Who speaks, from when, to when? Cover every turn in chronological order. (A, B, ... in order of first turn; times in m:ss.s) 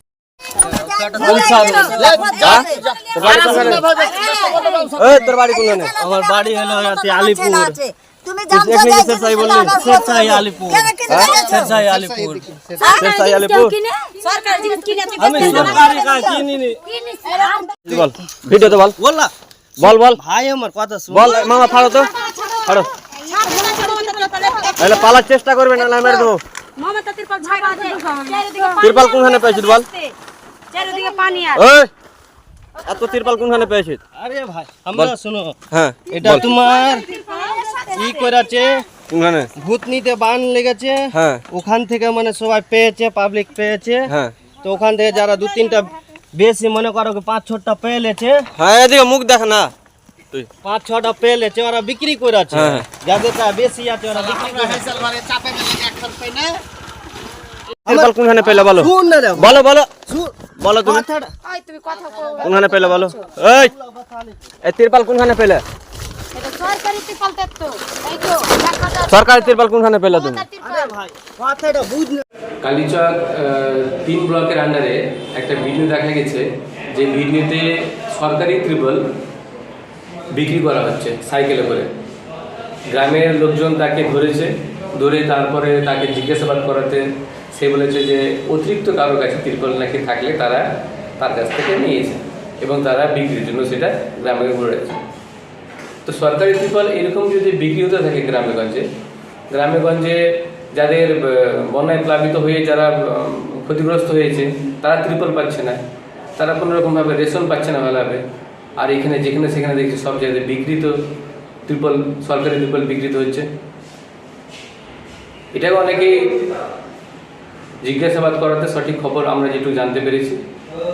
0:00.6-0:04.8 A
0:00.8-0:02.6 B
0:01.2-0:04.0 C
0:03.4-0:03.8 B
0:05.0-0:06.0 C
0:05.6-0:11.8 A
0:05.9-0:07.8 B
0:08.5-0:09.9 C
0:09.6-0:12.6 B
0:11.1-0:11.5 C
0:12.8-0:15.9 D
0:12.9-0:13.8 C
0:15.2-0:16.7 B
0:15.4-0:15.8 C
0:15.8-0:16.4 A
0:16.3-0:16.7 C
0:16.9-0:17.7 D
0:17.8-0:19.0 C
0:17.9-0:21.6 B
0:19.8-0:20.2 C
0:21.1-0:22.1 C
0:21.5-0:25.1 D
0:24.8-0:26.4 C
0:25.7-0:30.1 D
0:28.8-0:29.9 C
0:30.7-0:31.6 D
0:31.5-0:31.9 C
0:32.8-0:34.0 C
0:34.1-0:35.6 B
0:35.7-0:36.5 C
0:36.1-0:37.1 B
0:36.7-0:38.3 D
0:37.9-0:38.8 B
0:39.1-0:39.5 C
0:39.6-0:44.1 B
0:41.1-0:41.4 C
0:44.6-0:48.4 B
0:48.6-0:49.7 C
0:50.6-0:55.4 B
0:52.5-0:52.8 C
0:57.8-1:01.3 B
0:57.9-0:59.9 C
1:00.6-1:01.0 C
1:01.5-1:02.8 D
1:02.4-1:04.4 B
1:02.4-1:03.7 C
1:04.6-1:05.6 C
1:06.4-1:09.5 D
1:09.1-1:10.4 C
1:10.1-1:10.9 D
1:10.6-1:12.2 B
1:12.6-1:19.0 E
1:20.3-1:21.9 E
1:22.9-1:27.0 E
1:27.5-1:30.6 E
1:31.2-1:35.0 E
1:36.0-1:38.8 E
1:39.5-1:40.2 E
1:40.7-1:45.8 E
1:46.4-1:48.2 E
1:48.8-1:50.9 E
1:51.7-1:53.4 E
1:55.5-1:56.2 E
1:57.8-2:00.4 E